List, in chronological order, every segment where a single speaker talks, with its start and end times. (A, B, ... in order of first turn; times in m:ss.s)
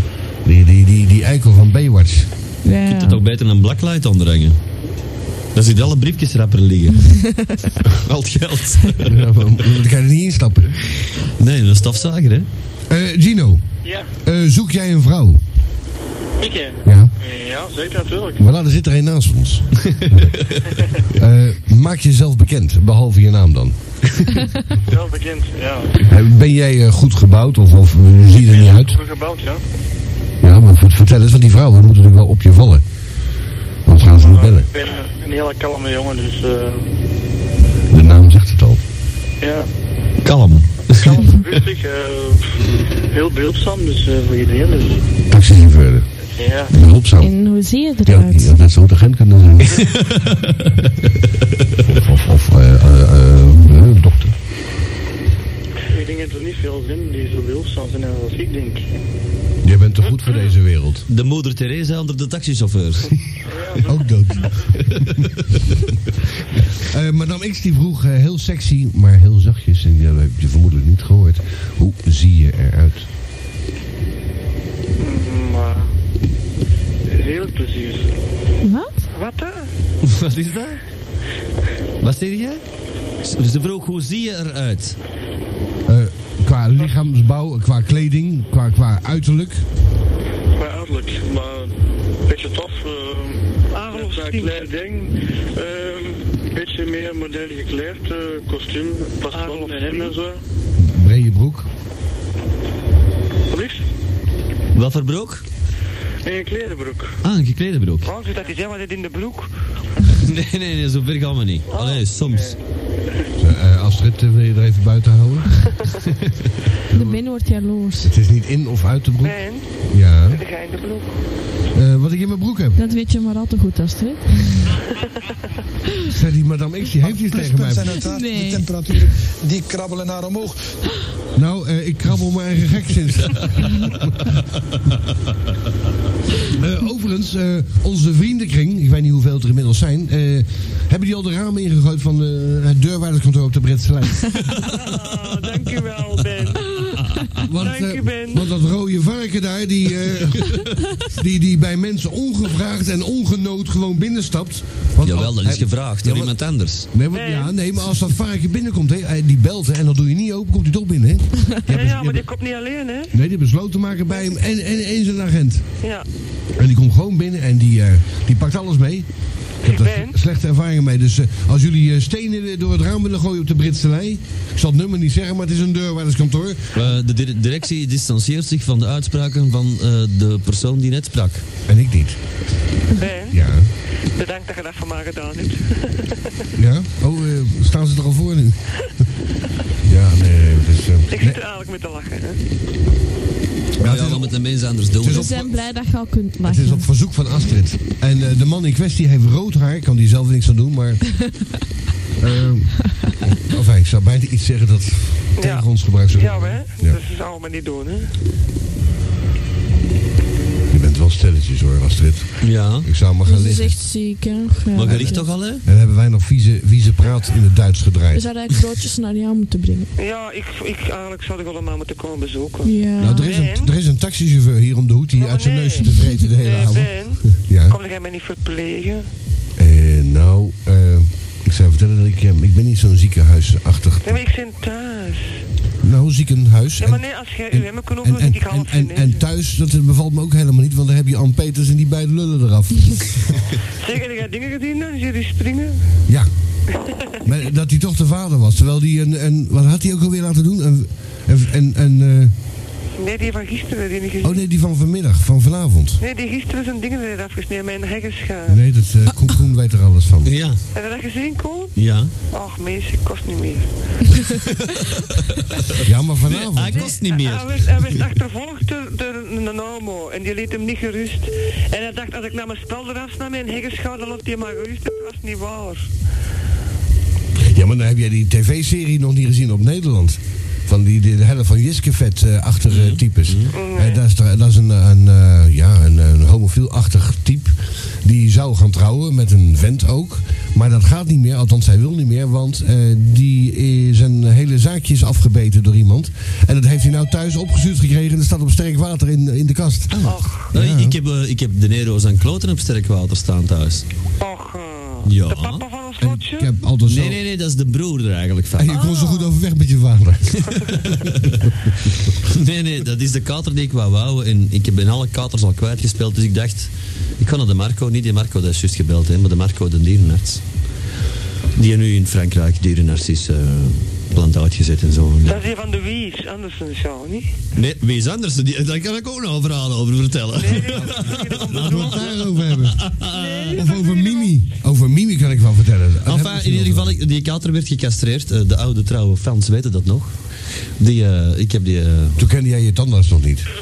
0:00.4-0:02.3 A
0:02.6-0:03.2 B
0:02.9-0:04.6 C
0:05.6-0:07.2 C
0:07.2-0:07.8 B
0:07.9-0:09.2 C
0:09.1-0:10.8 A
0:11.4-0:12.5 C
0:12.9-0:13.6 A
0:13.8-0:14.1 D
0:14.2-0:15.4 A
0:16.4-0:18.4 D
0:16.8-0:17.1 A
0:18.4-0:20.4 A
0:19.8-0:20.6 C
0:21.1-0:23.8 A
0:24.9-0:26.0 D
0:26.0-0:29.0 A
0:28.3-0:29.6 D
0:30.4-0:32.8 A
0:33.9-0:34.7 A
0:34.1-0:36.8 D
0:37.9-0:38.8 A
0:39.4-0:39.7 D
0:40.2-0:41.6 C
0:40.9-0:42.6 D
0:43.1-0:45.0 D
0:45.3-0:46.1 A
0:46.4-0:46.7 D
0:46.7-0:50.0 A
0:47.2-0:48.7 B
0:49.7-0:51.1 C
0:51.8-0:54.3 A
0:55.9-0:58.8 D
0:59.6-1:01.1 A
1:01.1-1:03.2 C
1:03.4-1:04.5 D
1:03.8-1:05.3 A
1:06.8-1:13.1 A
1:15.0-1:15.9 D
1:17.1-1:18.1 D
1:18.6-1:19.0 B
1:19.1-1:19.7 E
1:20.0-1:20.8 C
1:22.0-1:22.6 C
1:23.2-1:25.0 C
1:25.9-1:29.6 A
1:30.5-1:40.4 D
1:33.7-1:34.7 E
1:39.3-1:40.1 E
1:40.8-1:41.7 A
1:43.5-1:43.8 D
1:44.7-1:45.4 C
1:46.2-1:47.2 D
1:47.2-1:48.1 C
1:48.0-1:49.5 E
1:50.2-1:52.6 C
1:51.7-1:52.0 E
1:53.4-1:55.7 A
1:56.2-1:56.5 C
1:56.9-1:57.2 A
1:56.9-1:58.1 B
1:58.0-2:00.4 A
1:59.2-1:59.7 E
2:00.3-2:01.2 E
2:01.7-2:02.8 A
2:02.8-2:04.8 B
2:06.0-2:08.0 A
2:07.0-2:10.6 F
2:08.0-2:09.1 B
2:11.4-2:14.4 A
2:16.5-2:24.4 A
2:24.7-2:26.8 E
2:27.1-2:27.4 C
2:27.4-2:42.3 A
2:27.6-2:28.5 E
2:35.0-2:36.9 C
2:37.1-2:37.5 E
2:41.7-2:43.1 E
2:43.1-2:45.7 A
2:46.6-2:49.1 A
2:49.6-2:56.9 A
2:49.7-2:50.1 E
2:56.7-3:01.4 C
3:01.7-3:02.2 A
3:03.0-3:03.4 E
3:03.3-3:03.7 A
3:04.1-3:06.1 E
3:06.6-3:09.0 A
3:09.8-3:11.4 A
3:11.1-3:12.4 E
3:13.8-3:15.7 A
3:13.8-3:15.3 C
3:15.1-3:16.9 B
3:16.4-3:21.2 A
3:22.2-3:27.0 A
3:25.4-3:28.1 E
3:30.7-3:33.8 A
3:32.4-3:32.9 C
3:33.3-3:35.2 B
3:34.8-3:35.6 C
3:34.8-3:38.3 A
3:38.1-3:39.9 B
3:40.0-3:43.7 E
3:42.6-3:43.3 B
3:43.0-3:47.8 A
3:45.2-3:49.1 E
3:49.6-3:54.2 A
3:54.0-3:55.4 E
3:55.8-4:03.4 A
3:56.8-3:59.2 E
4:03.8-4:05.8 E
4:07.2-4:12.3 A
4:13.0-4:14.4 E
4:14.2-4:16.0 A
4:16.0-4:18.6 E
4:18.5-4:20.4 A
4:20.2-4:20.6 C
4:20.7-4:21.7 E
4:21.8-4:22.1 C
4:22.3-4:24.4 E
4:25.8-4:26.9 A
4:26.3-4:28.0 C
4:26.7-4:35.9 E
4:37.4-5:01.0 A
4:42.7-4:43.6 C
4:43.5-4:44.0 E
4:59.9-5:03.8 C
5:00.0-5:00.5 E
5:04.2-5:06.5 E
5:05.0-5:05.7 C
5:06.0-5:07.2 A
5:06.9-5:08.8 C
5:08.6-5:10.6 A
5:08.7-5:09.4 E
5:10.5-5:11.4 C
5:12.2-5:20.4 C
5:21.6-5:25.4 C
5:25.2-5:27.3 E
5:27.6-5:32.0 C
5:30.4-5:32.3 E
5:31.5-5:32.9 A
5:32.7-5:33.6 C
5:33.1-5:34.3 E
5:33.5-5:37.0 A
5:36.1-5:40.2 C
5:40.8-5:42.2 C
5:42.2-5:43.5 A